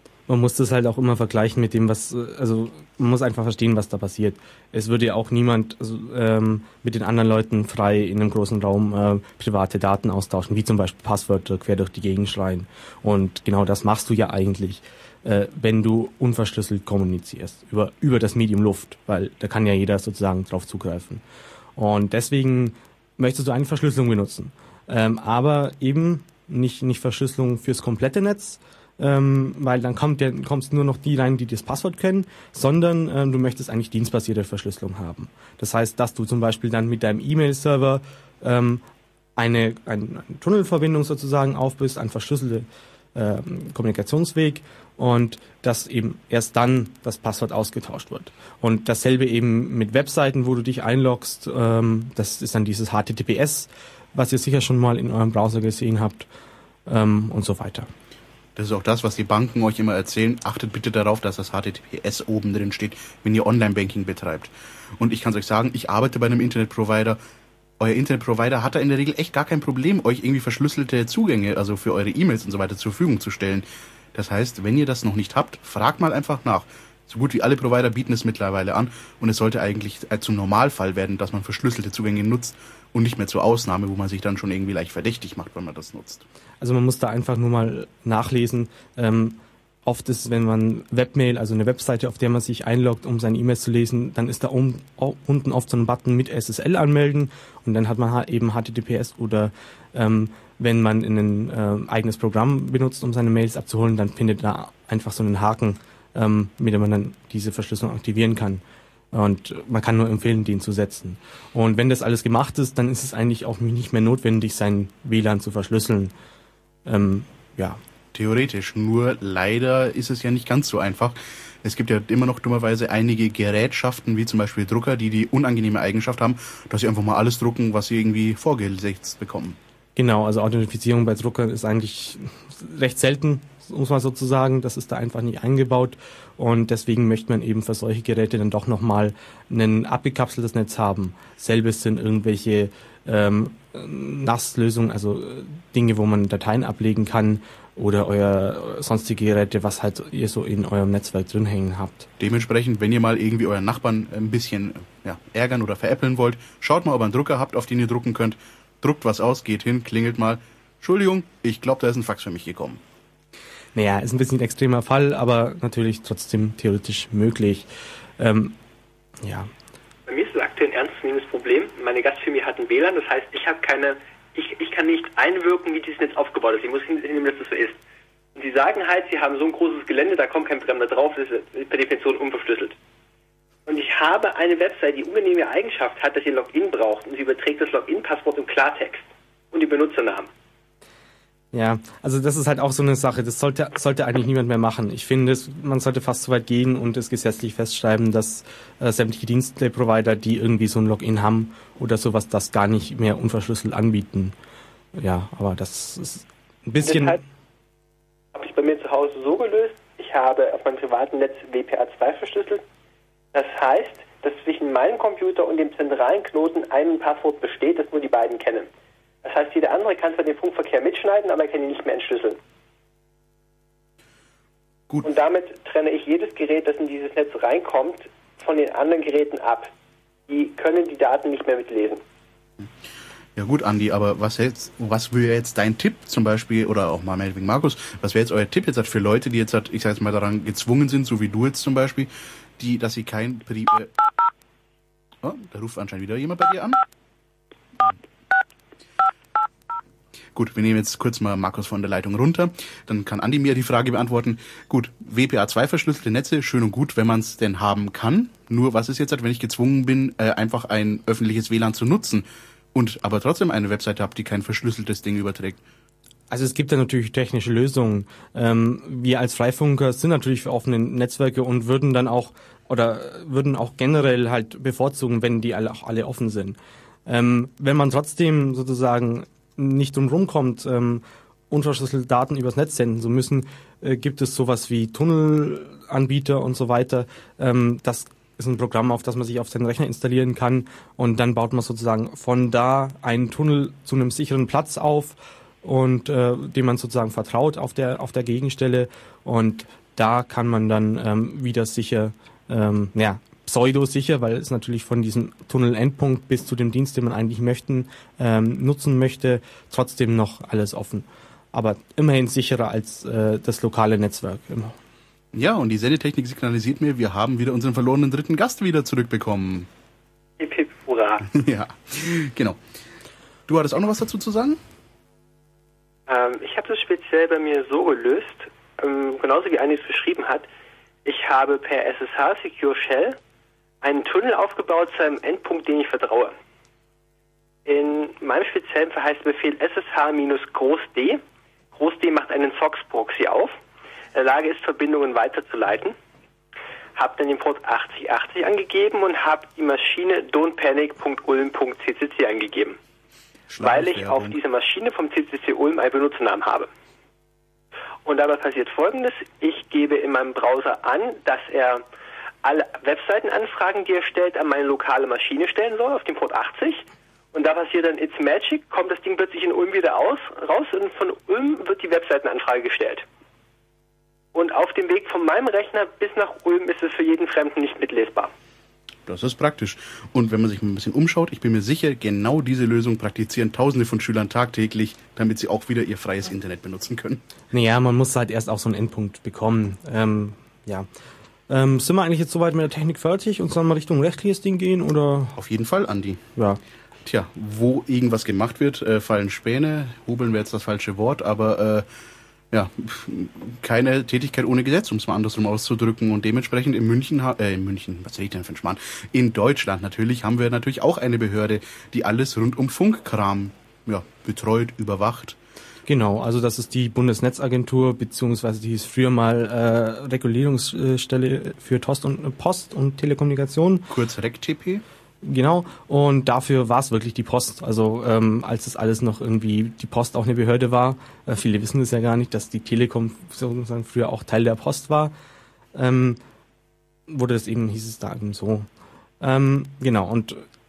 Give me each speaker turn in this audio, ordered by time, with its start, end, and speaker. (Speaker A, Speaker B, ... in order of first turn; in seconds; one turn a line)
Speaker A: 0.3-21.2
Speaker A: 21.8-38.8
Speaker A: 39.4-56.3
Speaker A: 56.9-57.9
Speaker B: 58.5-67.2
Speaker B: 67.8-86.2
Speaker A: 86.6-116.1
Speaker A: 116.8-117.8
Speaker B: 118.1-129.6
Speaker A: 129.9-152.1
Speaker B: 152.2-162.8
Speaker A: 163.7-168.6
Speaker A: 169.2-169.5
Speaker C: 170.1-177.8
Speaker C: 178.3-182.8
Speaker C: 183.7-190.3
Speaker A: 191.5-204.3
Speaker A: 204.9-207.2
Speaker C: 206.8-207.2
Speaker C: 208.3-212.6
Speaker C: 213.3-218.7
Speaker C: 219.2-222.4
Speaker C: 225.0-229.7
Speaker C: 230.3-232.0
Speaker B: 233.3-243.9
Speaker B: 245.2-246.8
Speaker B: 250.3-265.6
Speaker A: 266.3-314.8
Speaker B: 315.3-319.7
Speaker C: 320.4-321.3
Speaker B: 321.3-322.6
Speaker B: 323.5-324.6
Speaker C: 326.1-330.4
Speaker C: 331.0-333.2
Speaker C: 333.8-336.3
Speaker C: 337.6-341.2
Speaker C: 341.7-343.5
Speaker C: 344.1-345.9
Speaker C: 346.9-352.8
Speaker B: 353.5-354.4
Speaker C: 353.6-356.7
Speaker C: 358.0-361.8
Speaker C: 362.4-373.0
Speaker C: 374.3-378.3
Speaker B: 379.1-387.2
Speaker A: 387.5-390.9
Speaker A: 391.5-395.4
Speaker B: 395.4-396.2
Speaker B: 397.0-401.9
Speaker B: 402.5-415.4
Speaker A: 415.9-423.9
Speaker B: 423.9-424.8
Speaker A: 425.2-435.1
Speaker A: 435.7-436.2
Speaker A: 437.1-438.7
Speaker A: 439.2-440.4